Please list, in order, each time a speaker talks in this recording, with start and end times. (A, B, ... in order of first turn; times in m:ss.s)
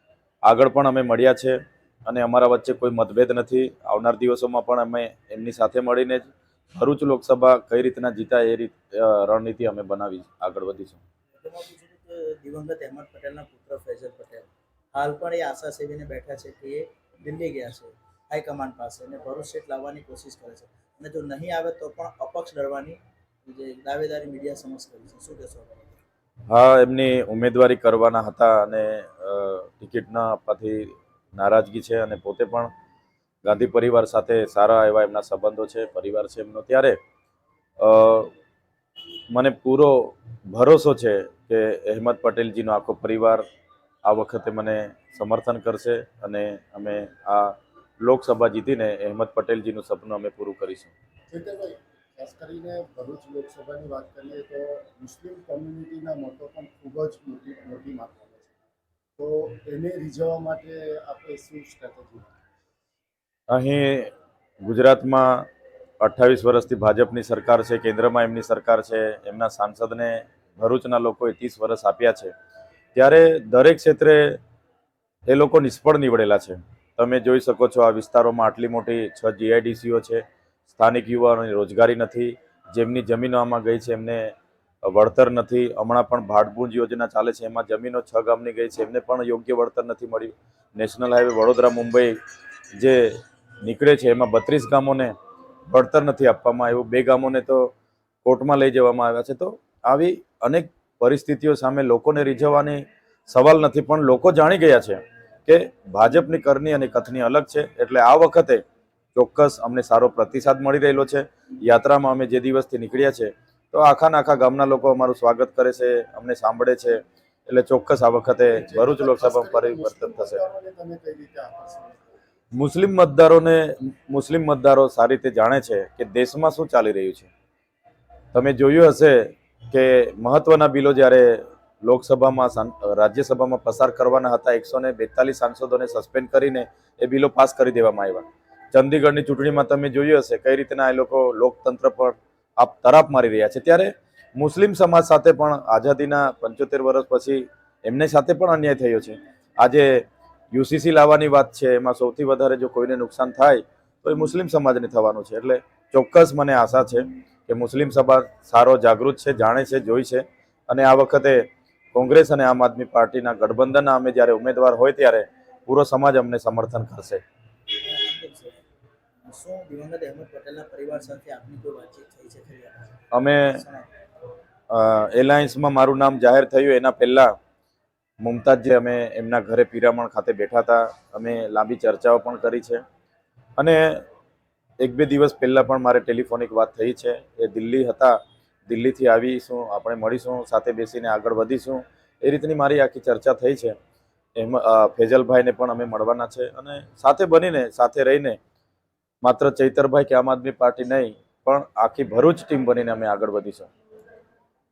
0:00.4-0:11.0 A
0:11.4-0:26.0 B
0:26.5-0:32.7 A
0:33.4-0:37.0 A
0:37.8-0:38.3 A
0:39.3-0:43.4 A
0:44.0-0:50.9 A
0:51.3-0:58.5 C
0:59.2-1:02.3 C
1:03.5-1:04.1 A
1:04.6-1:05.5 A
1:06.0-1:12.3 A
1:12.9-1:14.4 A
1:15.3-1:32.2 A
1:32.8-1:35.1 A
1:35.7-1:37.7 A
1:38.2-1:48.6 A
1:49.1-2:00.4 A
1:58.5-2:02.1 C
2:02.6-2:07.3 A
2:08.3-2:47.2 A
2:47.7-2:48.6 B
2:49.2-2:53.9 B
2:53.1-2:53.6 A
2:54.7-2:57.3 A
2:58.2-3:02.8 A
3:03.6-3:04.0 A
3:04.8-3:08.2 A
3:08.7-3:13.7 A
3:14.4-3:18.4 A
3:19.2-3:23.7 A